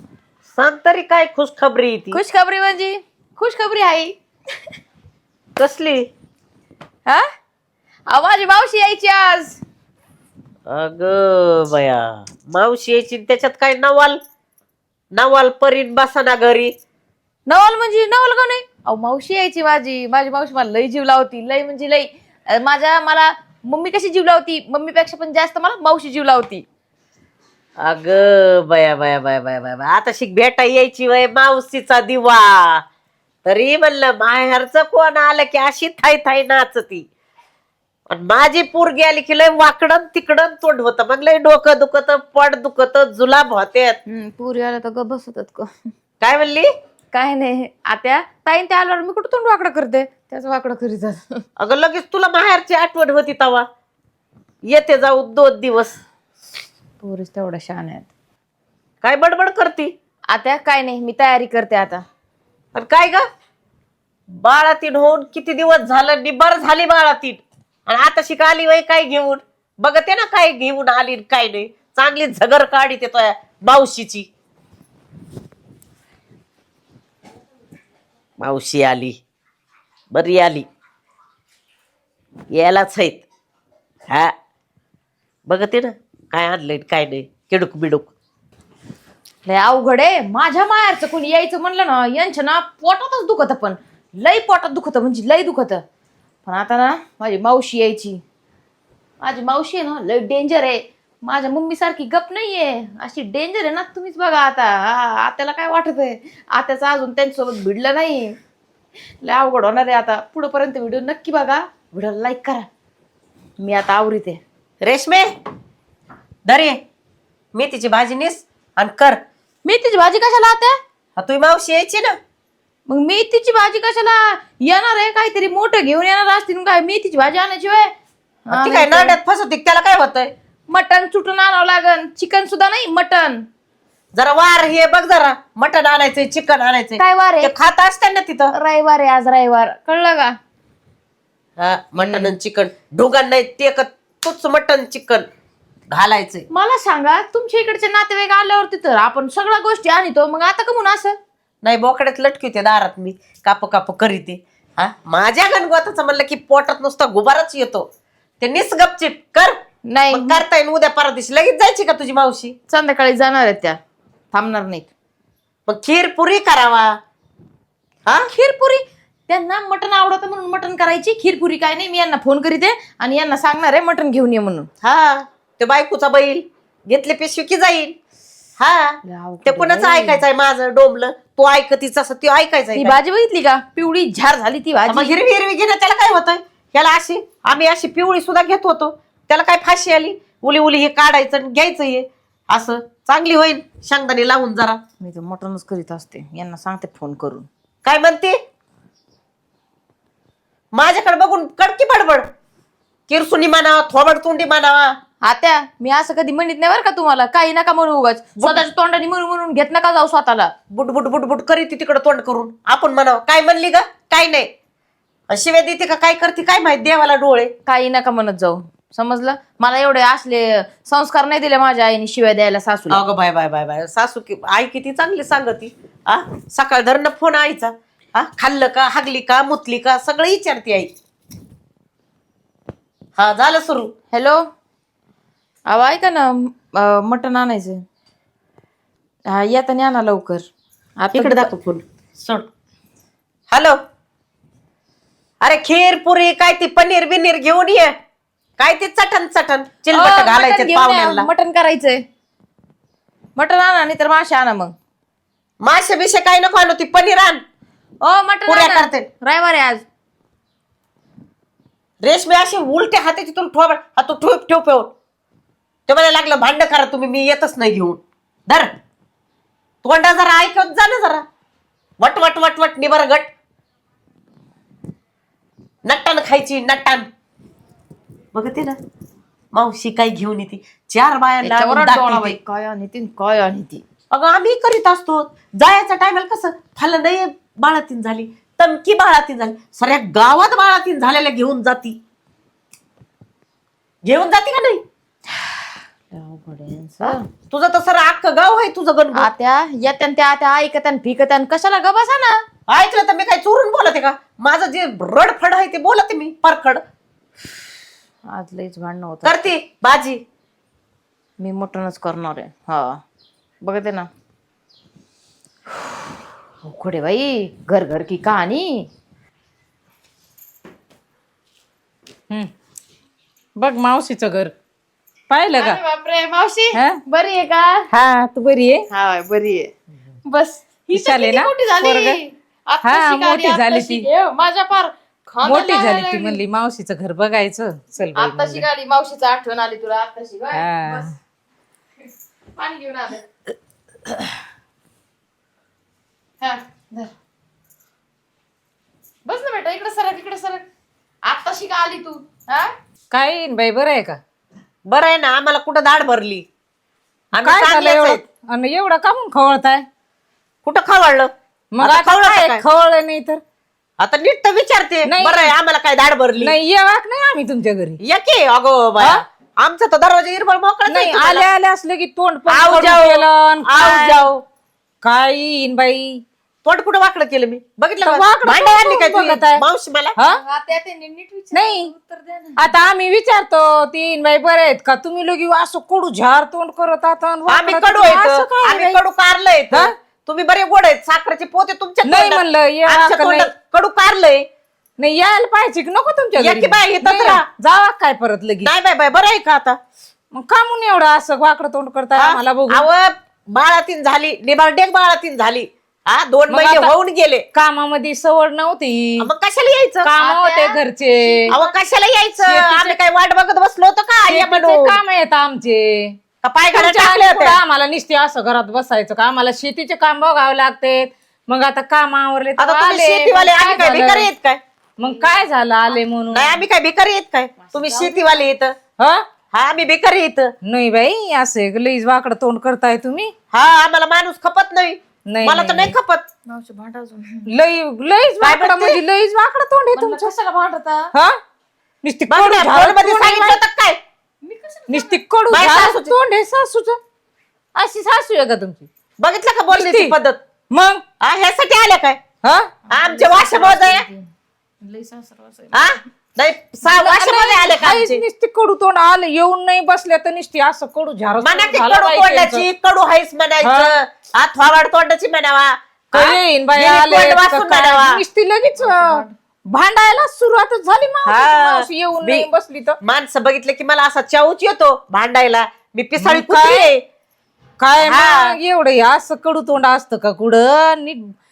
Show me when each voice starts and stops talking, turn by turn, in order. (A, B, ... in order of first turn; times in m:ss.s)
0:00.5-0:02.2 A
0:02.1-0:04.2 B
0:05.6-0:06.1 A
0:08.1-0:09.6 B
0:10.7-0:14.2 A
0:15.1-0:16.7 A
0:17.4-0:26.6 B
0:27.8-0:32.8 A
0:33.4-0:37.0 A
0:38.1-0:44.0 A
0:44.1-0:45.7 B
0:46.2-0:46.7 A
0:47.1-0:51.4 B
0:51.6-0:53.6 A
0:54.6-0:56.0 A
0:57.0-0:58.1 B
0:59.0-0:59.9 A
1:00.3-1:02.0 B
1:02.7-1:03.2 A
1:04.4-1:14.3 A
1:18.4-1:19.2 A
1:20.1-1:20.6 A
1:22.5-1:23.2 A
1:25.5-1:28.1 A
1:29.4-1:35.8 B
1:36.4-1:38.2 B
1:39.2-1:48.4 B
1:49.2-1:52.7 B
1:53.6-1:54.4 B
1:54.8-1:55.3 A
1:56.4-1:56.8 A
1:57.5-1:59.2 A
1:59.6-2:00.7 B
2:01.2-2:02.2 A
2:02.9-2:07.9 B
2:08.5-2:09.2 B
2:08.5-2:10.3 A
2:10.7-2:13.4 B
2:14.1-2:18.5 A
2:17.0-2:17.5 B
2:18.5-2:20.3 B
2:21.6-2:25.3 A
2:22.0-2:22.3 B
2:25.9-2:26.4 A
2:26.5-2:31.2 B
2:31.6-2:37.9 A
2:38.4-2:42.6 A
2:39.9-2:40.4 B
2:42.7-2:43.8 B
2:44.3-2:44.9 B
2:45.7-2:46.9 A
2:48.3-2:54.7 B
2:54.8-2:58.0 A
2:58.6-3:03.0 A
2:59.0-3:00.2 B
3:02.7-3:05.2 B
3:04.9-3:14.8 A
3:15.0-3:17.5 B
3:17.8-3:18.4 A
3:20.7-3:22.2 A
3:23.1-3:25.0 A
3:25.2-3:30.5 B
3:28.4-3:28.6 A
3:30.7-3:34.5 A
3:35.3-3:37.5 A
3:37.6-3:43.0 B
3:42.9-3:50.9 A
3:53.2-3:53.9 A
3:54.1-3:54.4 B
3:55.7-3:57.8 B
3:59.2-4:00.5 B
4:01.0-4:01.5 B
4:01.1-4:02.5 A
4:03.5-4:03.8 A
4:05.4-4:07.9 A
4:08.6-4:11.3 A
4:09.9-4:12.0 B
4:13.4-4:14.7 B
4:15.6-4:17.4 A
4:18.0-4:19.8 B
4:18.5-4:19.0 A
4:22.0-4:24.9 A
4:25.9-4:28.7 A
4:29.8-4:31.2 A
4:32.0-4:33.3 A
4:35.8-4:37.1 A
4:38.3-4:38.8 A
4:39.5-4:42.4 A
4:41.4-4:43.8 B
4:44.1-4:52.0 A
4:54.0-4:54.8 A
4:55.4-4:57.2 B
4:57.0-4:59.3 A
4:59.1-5:02.4 B
5:02.7-5:06.8 A
5:08.3-5:09.4 B
5:09.2-5:10.2 A
5:11.4-5:13.0 B
5:13.6-5:14.1 B
5:16.6-5:18.9 B
5:23.6-5:24.5 C
5:25.3-5:25.8 C
5:25.6-5:27.9 B
5:26.7-5:27.0 C
5:27.9-5:28.8 C
5:28.9-5:29.7 B
5:30.2-5:36.4 B
5:30.9-5:32.2 C
5:32.8-5:34.1 C
5:35.4-5:38.6 C
5:38.1-5:41.1 B
5:40.5-5:41.1 C
5:42.6-5:43.2 B
5:46.4-5:47.1 B
5:49.2-5:50.6 B
5:51.3-5:52.7 B
5:53.1-5:54.2 C
5:54.8-5:56.4 A
5:57.3-5:58.2 A
5:57.4-5:59.8 C
6:00.6-6:02.6 A
6:01.7-6:03.4 C
6:04.0-6:06.5 A
6:05.0-6:05.5 C
6:06.4-6:08.0 C
6:08.0-6:11.5 A
6:10.9-6:14.3 C
6:12.5-6:14.4 A
6:15.0-6:16.2 C
6:16.6-6:20.1 A
6:18.0-6:19.6 C
6:20.3-6:22.6 B
6:21.5-6:21.9 C
6:22.6-6:29.0 C
6:27.5-6:34.5 A
6:32.0-6:33.5 C
6:35.0-6:38.7 C
6:36.4-6:37.4 A
6:38.6-6:39.8 A
6:40.3-6:42.9 C
6:42.1-6:47.4 A
6:46.5-6:46.9 C
6:47.5-6:49.3 C
6:49.2-6:50.1 A
6:50.0-6:51.5 C
6:50.2-6:51.7 B
6:51.5-6:54.9 A
6:52.4-6:53.0 C
6:54.3-6:56.1 C
6:56.4-6:57.6 A
6:56.7-7:04.3 C
7:02.6-7:04.6 A
7:05.0-7:06.6 C
7:06.3-7:08.8 A
7:07.6-7:08.3 B
7:09.5-7:10.5 A
7:10.6-7:13.3 C
7:13.5-7:16.3 A
7:15.3-7:15.9 C
7:16.5-7:17.5 B
7:17.5-7:20.3 C
7:18.4-7:19.0 A
7:19.9-7:21.1 B
7:22.0-7:23.6 C
7:22.3-7:24.0 A
7:24.4-7:25.2 B
7:24.9-7:27.0 C
7:25.5-7:26.2 A
7:27.7-7:28.9 C
7:29.2-7:30.4 A
7:29.7-7:30.1 C
7:30.7-7:31.0 C
7:31.2-7:32.2 A
7:32.4-7:32.7 C
7:32.9-7:34.0 A
7:32.9-7:34.3 B
7:34.8-7:35.9 B
7:35.7-7:38.2 A
7:36.8-7:42.6 C
7:41.4-7:48.2 A
7:43.6-7:43.9 C
7:46.1-7:53.0 C
7:48.8-7:49.3 B
7:51.2-7:52.5 A
7:53.0-7:57.0 A
7:56.2-7:56.9 C
7:57.8-8:01.3 C
7:58.0-7:58.6 A